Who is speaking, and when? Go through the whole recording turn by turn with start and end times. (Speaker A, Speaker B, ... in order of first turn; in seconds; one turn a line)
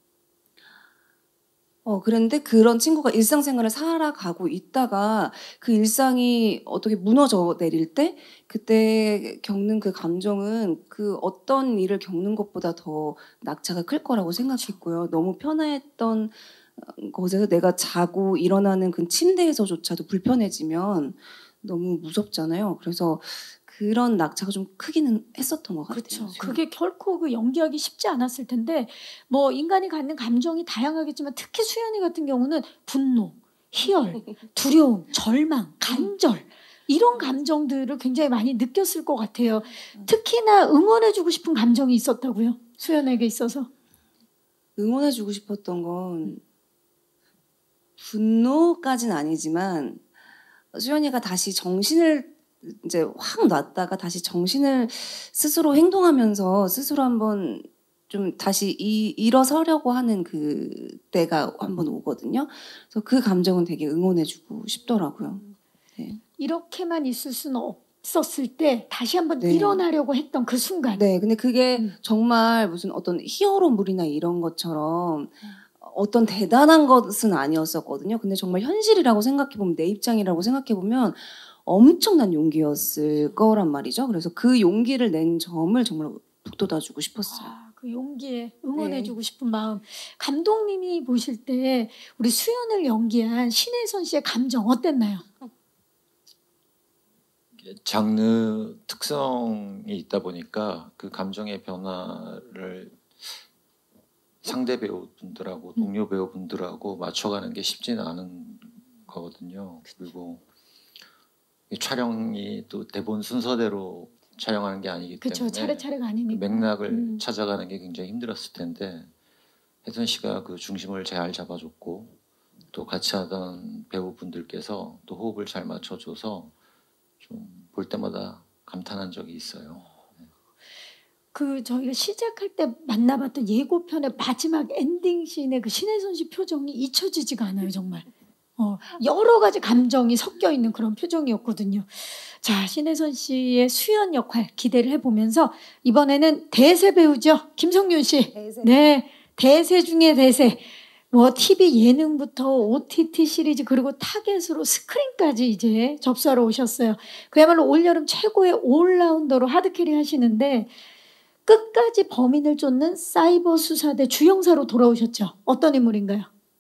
Speaker A: 1.9-26.6
Speaker B: 14.4-14.8
Speaker B: 25.9-43.7
Speaker A: 35.9-36.1
Speaker A: 44.8-46.4
Speaker A: 48.0-50.0
Speaker A: 50.7-66.2
Speaker B: 66.4-71.0
Speaker A: 69.4-69.8
Speaker A: 70.9-87.5
Speaker B: 87.3-95.2
Speaker A: 88.8-89.2
Speaker C: 97.7-103.0
Speaker C: 104.4-110.4
Speaker C: 111.7-119.1
Speaker B: 115.2-117.2
Speaker C: 119.8-122.2
Speaker C: 122.7-126.5
Speaker C: 127.2-130.0
Speaker B: 131.3-160.7
Speaker A: 148.3-148.7
Speaker B: 161.5-166.3